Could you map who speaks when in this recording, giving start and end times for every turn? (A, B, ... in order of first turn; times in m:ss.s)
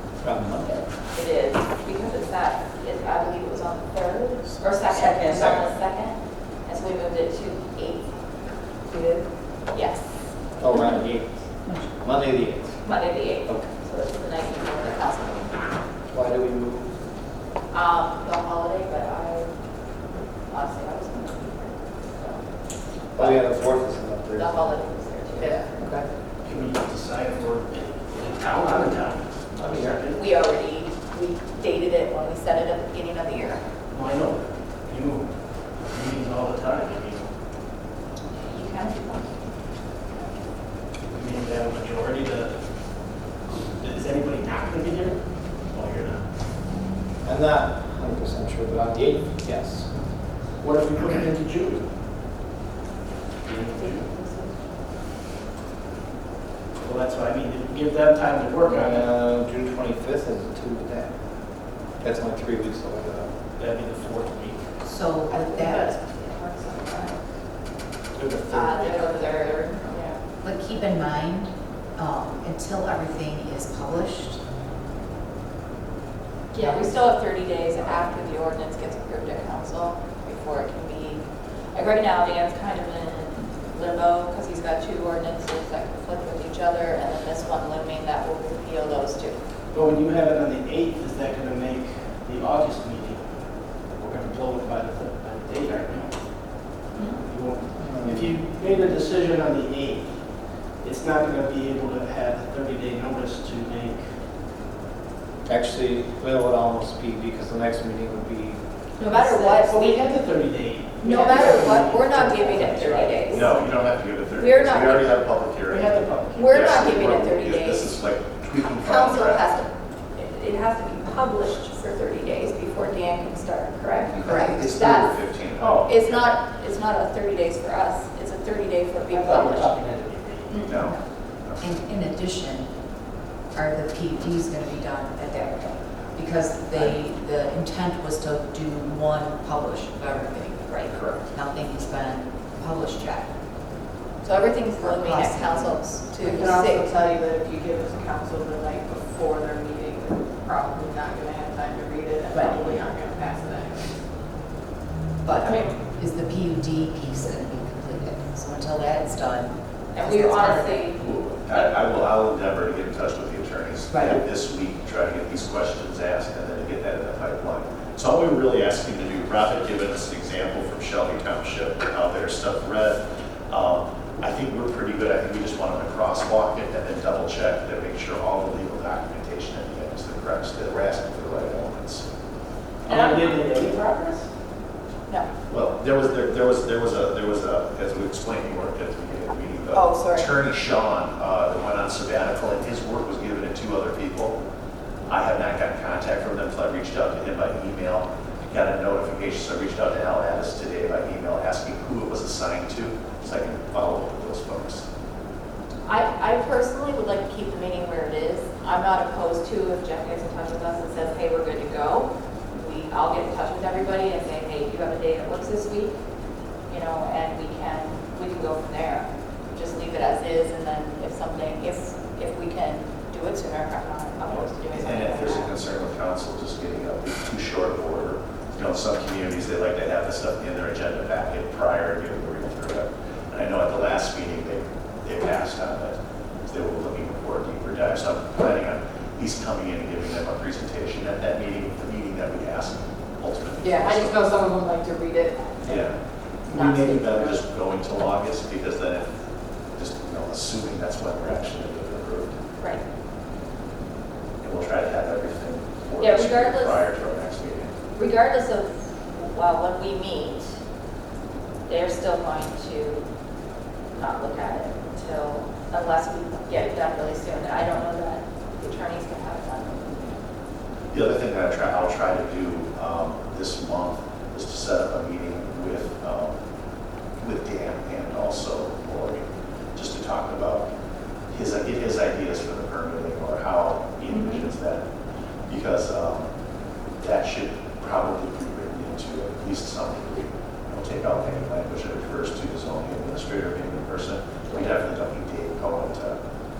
0:00.2-0:00.8 A
0:01.0-0:08.1 B
0:09.7-0:10.3 B
0:10.6-0:12.8 A
0:12.8-0:15.6 B
0:16.1-0:16.9 A
0:17.7-0:19.5 B
0:20.5-0:22.4 B
0:23.1-0:24.6 A
0:24.3-0:25.6 B
0:25.4-0:26.1 A
0:26.4-0:30.2 C
0:29.6-0:30.0 A
0:30.1-0:33.6 B
0:33.9-0:37.3 C
0:38.4-0:39.3 B
0:41.0-0:46.2 C
0:47.2-0:49.9 A
0:50.6-0:51.9 C
0:51.0-0:51.3 D
0:53.4-0:54.1 C
0:56.8-0:59.0 C
0:58.6-1:03.4 A
1:03.6-1:04.6 C
1:04.8-1:06.0 E
1:05.3-1:07.2 F
1:08.1-1:08.8 A
1:08.5-1:10.0 B
1:08.9-1:10.2 F
1:10.4-1:14.4 E
1:16.5-1:29.4 B
1:29.7-1:33.3 C
1:33.9-1:36.2 C
1:36.7-1:40.1 C
1:37.8-1:38.4 A
1:40.8-1:44.1 C
1:45.4-1:48.6 A
1:49.0-1:50.1 B
1:49.0-1:53.8 C
1:51.0-1:53.5 B
1:53.3-1:59.4 D
1:54.3-1:55.1 B
1:55.7-1:57.2 C
1:56.3-1:58.0 B
1:58.8-2:05.2 B
2:04.1-2:06.3 D
2:04.2-2:04.5 E
2:05.6-2:05.9 C
2:05.8-2:09.8 B
2:09.1-2:10.7 C
2:10.5-2:11.0 B
2:10.6-2:11.7 D
2:11.6-2:12.7 E
2:13.5-2:23.3 E
2:20.7-2:20.9 B
2:20.9-2:21.2 D
2:24.2-2:26.9 B
2:24.8-2:26.5 E
2:26.2-2:34.0 F
2:32.3-2:32.6 E
2:35.2-2:40.8 E
2:35.4-2:35.7 B
2:39.9-2:41.7 B
2:41.0-3:02.0 D
2:43.9-2:44.2 E
3:02.8-3:04.3 C
3:02.9-3:03.4 B
3:05.5-3:14.4 D
3:09.7-3:10.3 B
3:15.1-3:24.8 D
3:25.8-3:36.0 B
3:36.7-3:45.5 B
3:44.3-4:04.2 D
4:03.6-4:05.9 F
4:05.6-4:09.1 D
4:06.5-4:07.4 F
4:09.7-4:12.4 D
4:12.6-4:12.8 B
4:14.4-4:17.8 D
4:16.0-4:16.8 B
4:17.9-4:20.5 B
4:21.7-4:23.0 B
4:24.0-4:30.1 B
4:30.9-4:36.4 D
4:37.2-4:40.7 D
4:41.3-4:44.8 D
4:44.1-4:44.4 B
4:45.5-4:46.3 D
4:47.0-4:56.2 D